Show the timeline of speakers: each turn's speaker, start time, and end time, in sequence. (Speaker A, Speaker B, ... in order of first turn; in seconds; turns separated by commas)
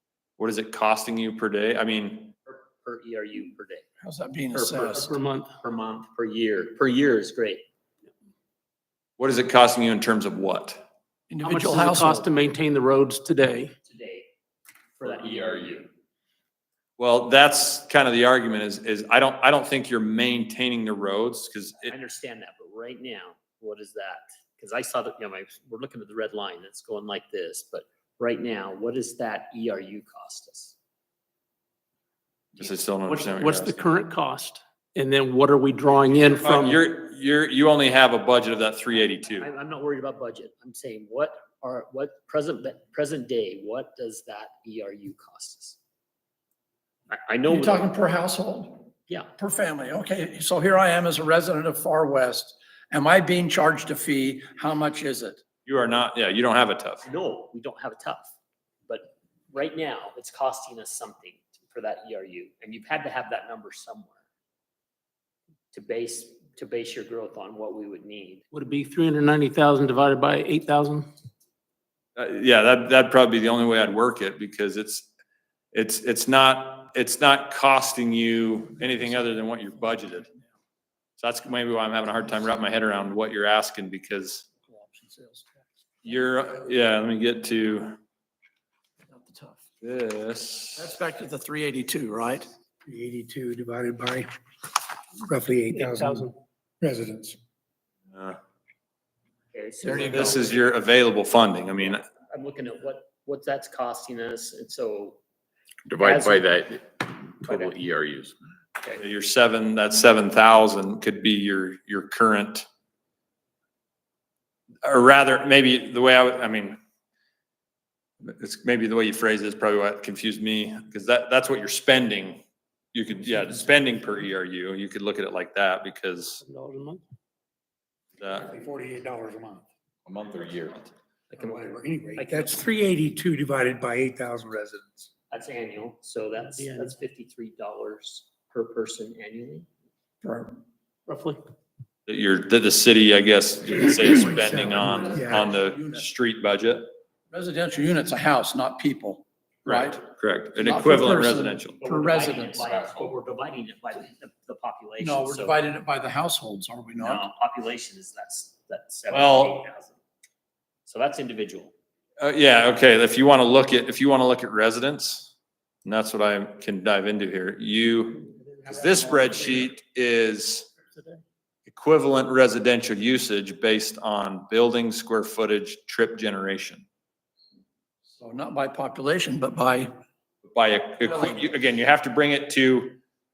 Speaker A: 0.4-2.4, Speaker B: 2.5-3.9, Speaker C: 4.0-5.1, Speaker B: 4.5-7.6, Speaker D: 4.9-5.5, Speaker A: 9.2-10.8, Speaker C: 11.3-12.3, Speaker D: 11.4-13.7, Speaker B: 13.8-14.3, Speaker B: 15.0-15.9, Speaker E: 15.0-15.8, Speaker A: 17.0-21.9, Speaker B: 21.9-30.8, Speaker A: 32.6-33.8, Speaker D: 33.1-36.8, Speaker A: 36.3-39.5, Speaker B: 39.4-45.8, Speaker B: 47.1-47.9, Speaker C: 47.5-55.4, Speaker A: 55.7-57.0, Speaker B: 57.0-58.3, Speaker B: 58.9-64.2, Speaker B: 65.7-68.4, Speaker D: 68.5-71.1, Speaker A: 72.2-75.1, Speaker A: 75.7-80.3, Speaker A: 81.2-84.5, Speaker C: 84.7-85.5, Speaker A: 86.0-88.0, Speaker C: 89.1-89.6, Speaker A: 89.8-90.9, Speaker C: 90.8-92.5, Speaker F: 92.9-94.3, Speaker F: 95.2-96.3, Speaker D: 95.7-96.3, Speaker F: 96.8-97.4, Speaker A: 98.1-98.4, Speaker B: 99.5-100.6, Speaker C: 99.8-100.5, Speaker A: 100.1-102.0, Speaker B: 102.1-105.2, Speaker E: 105.9-108.4, Speaker B: 106.0-106.5, Speaker B: 107.4-107.8, Speaker A: 109.0-112.7, Speaker A: 114.8-116.8, Speaker A: 118.2-122.4, Speaker A: 122.9-126.4, Speaker D: 126.4-127.0, Speaker A: 128.2-128.5, Speaker F: 128.3-129.6, Speaker E: 130.1-130.8, Speaker B: 131.3-132.6, Speaker F: 131.3-135.1, Speaker B: 135.3-139.7, Speaker D: 136.5-136.9, Speaker C: 140.2-140.6, Speaker D: 141.1-141.4, Speaker A: 142.1-146.9, Speaker F: 144.0-145.5, Speaker C: 144.8-146.0, Speaker C: 147.3-150.0, Speaker A: 149.7-151.8, Speaker C: 150.6-152.6, Speaker B: 151.8-155.6, Speaker E: 152.6-153.2, Speaker C: 155.0-157.2, Speaker B: 157.0-160.0, Speaker A: 159.1-159.6, Speaker B: 160.9-161.7, Speaker A: 162.2-165.3, Speaker A: 165.8-170.7, Speaker A: 171.7-176.9, Speaker C: 178.2-179.9, Speaker A: 180.4-183.0